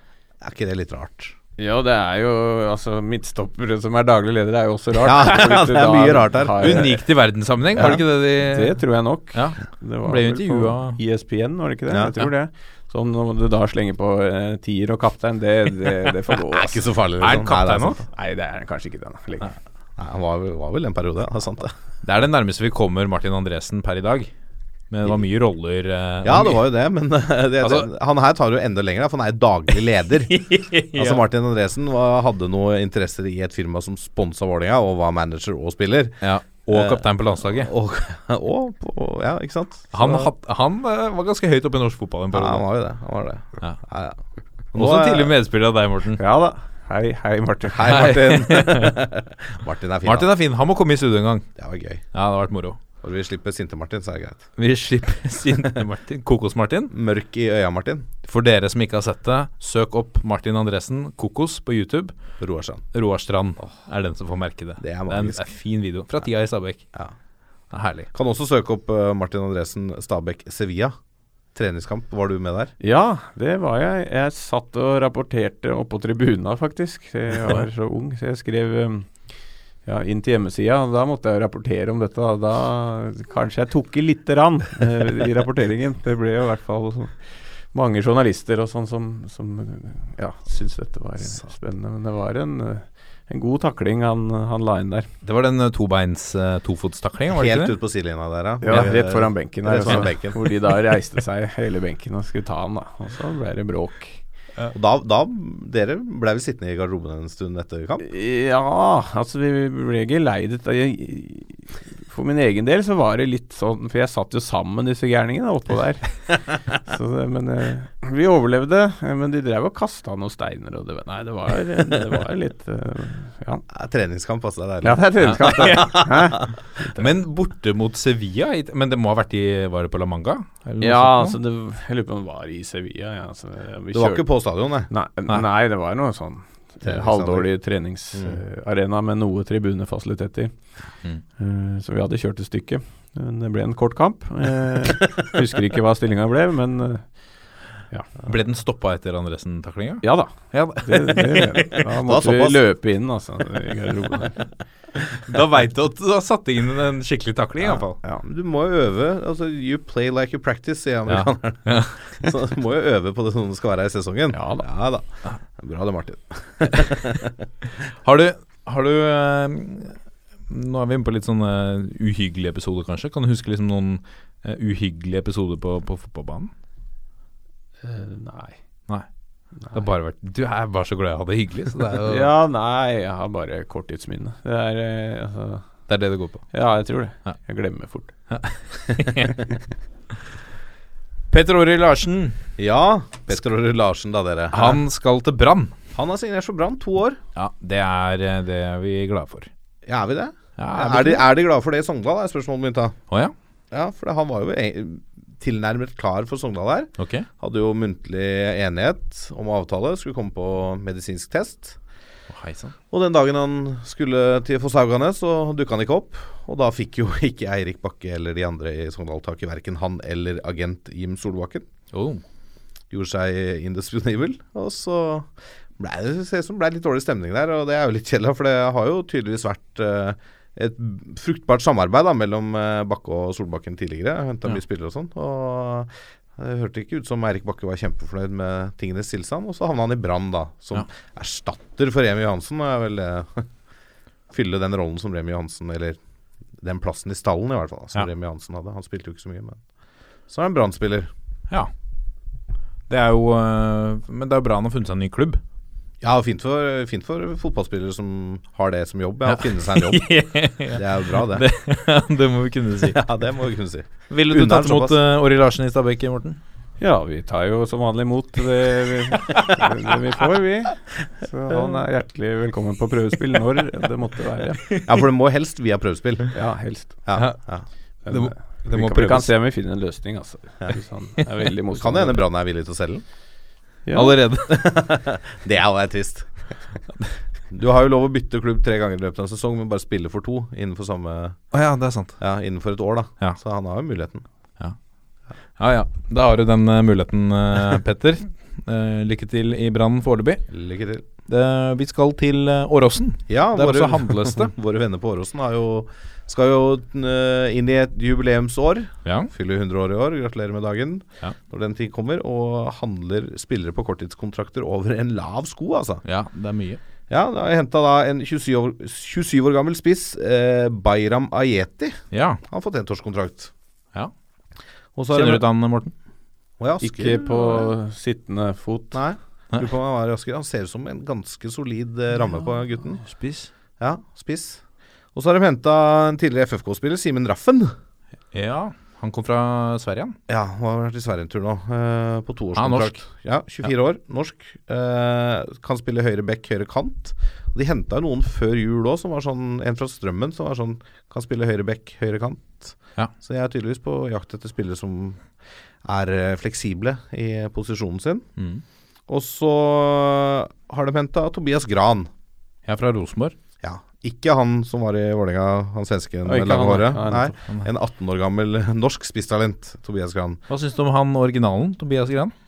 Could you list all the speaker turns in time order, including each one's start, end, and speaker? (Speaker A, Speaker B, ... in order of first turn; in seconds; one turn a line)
Speaker A: 0.4-1.4
Speaker B: 1.6-7.0
Speaker A: 5.0-7.0
Speaker C: 6.6-8.8
Speaker B: 7.8-16.8
Speaker C: 9.3-11.0
Speaker A: 16.5-18.0
Speaker C: 17.2-18.0
Speaker B: 18.1-19.5
Speaker A: 20.0-21.7
Speaker C: 22.0-24.3
Speaker C: 24.9-26.6
Speaker A: 26.2-40.3
Speaker C: 27.6-27.9
Speaker C: 30.3-31.2
Speaker C: 36.2-37.7
Speaker C: 39.9-42.6
Speaker A: 42.3-44.2
Speaker A: 44.7-45.3
Speaker C: 44.8-46.2
Speaker B: 46.2-48.1
Speaker A: 47.7-50.3
Speaker C: 47.9-49.0
Speaker C: 50.0-51.5
Speaker A: 51.6-52.0
Speaker C: 52.1-52.8
Speaker A: 53.0-54.4
Speaker C: 54.6-56.9
Speaker A: 56.9-58.1
Speaker C: 58.3-62.1
Speaker A: 62.4-62.8
Speaker C: 62.9-66.8
Speaker A: 64.8-65.5
Speaker C: 67.7-68.1
Speaker A: 68.1-71.0
Speaker A: 71.5-72.7
Speaker B: 72.8-79.2
Speaker B: 79.8-87.2
Speaker B: 87.7-95.1
Speaker C: 95.2-97.8
Speaker A: 97.3-100.5
Speaker B: 98.6-104.2
Speaker A: 104.7-108.0
Speaker B: 108.0-123.6
Speaker A: 123.7-126.5
Speaker B: 124.8-127.1
Speaker C: 125.2-126.0
Speaker C: 127.0-131.4
Speaker B: 130.8-134.3
Speaker A: 133.9-134.9
Speaker B: 134.9-140.5
Speaker A: 136.8-137.5
Speaker A: 138.1-138.4
Speaker B: 141.4-147.1
Speaker C: 148.3-151.8
Speaker B: 150.0-154.4
Speaker A: 152.0-152.6
Speaker C: 155.1-157.9
Speaker A: 157.8-165.1
Speaker C: 161.1-162.0
Speaker B: 164.3-164.7
Speaker A: 165.6-167.4
Speaker C: 168.0-170.0
Speaker C: 170.5-176.5
Speaker B: 177.8-178.6
Speaker C: 179.7-182.3
Speaker B: 182.1-185.7
Speaker C: 185.9-186.5
Speaker B: 186.5-188.1
Speaker C: 188.3-189.5
Speaker C: 191.3-192.4
Speaker A: 192.6-194.8
Speaker C: 194.5-195.8
Speaker A: 195.9-197.2
Speaker C: 197.4-199.5
Speaker A: 199.9-203.0
Speaker C: 200.6-201.3
Speaker A: 203.7-211.8
Speaker C: 207.0-207.3
Speaker C: 212.3-212.7
Speaker A: 212.9-221.7
Speaker C: 221.9-222.2
Speaker A: 222.9-243.5
Speaker A: 244.3-246.0
Speaker A: 246.6-249.6
Speaker A: 250.3-251.1
Speaker C: 252.9-255.4
Speaker A: 256.0-260.1
Speaker C: 259.3-263.0
Speaker A: 260.7-261.4
Speaker A: 262.9-265.0
Speaker C: 264.1-266.4
Speaker B: 266.8-274.6
Speaker A: 274.8-276.3
Speaker B: 276.3-277.0
Speaker A: 277.1-277.7
Speaker B: 278.1-282.2
Speaker C: 278.1-279.3
Speaker A: 281.7-283.0
Speaker B: 283.9-284.1
Speaker C: 283.9-284.6
Speaker A: 284.4-286.3
Speaker A: 287.5-291.4
Speaker C: 291.5-292.2
Speaker A: 292.2-294.2
Speaker C: 295.6-300.4
Speaker A: 300.5-301.1
Speaker C: 301.3-304.5
Speaker A: 303.3-316.0
Speaker C: 309.1-309.3
Speaker C: 316.1-316.8
Speaker A: 317.1-323.5
Speaker C: 322.1-322.4
Speaker A: 325.0-325.4
Speaker C: 325.1-325.9
Speaker A: 326.6-327.7
Speaker B: 326.8-329.0
Speaker A: 328.9-333.0
Speaker C: 333.0-333.5
Speaker A: 333.8-334.6
Speaker A: 335.1-337.8
Speaker C: 338.3-340.2
Speaker A: 340.3-355.2
Speaker C: 342.6-343.0
Speaker A: 355.8-358.3
Speaker C: 358.4-358.6
Speaker A: 359.1-362.1
Speaker C: 362.7-363.4
Speaker A: 363.6-370.4
Speaker B: 366.2-367.4
Speaker C: 370.5-372.3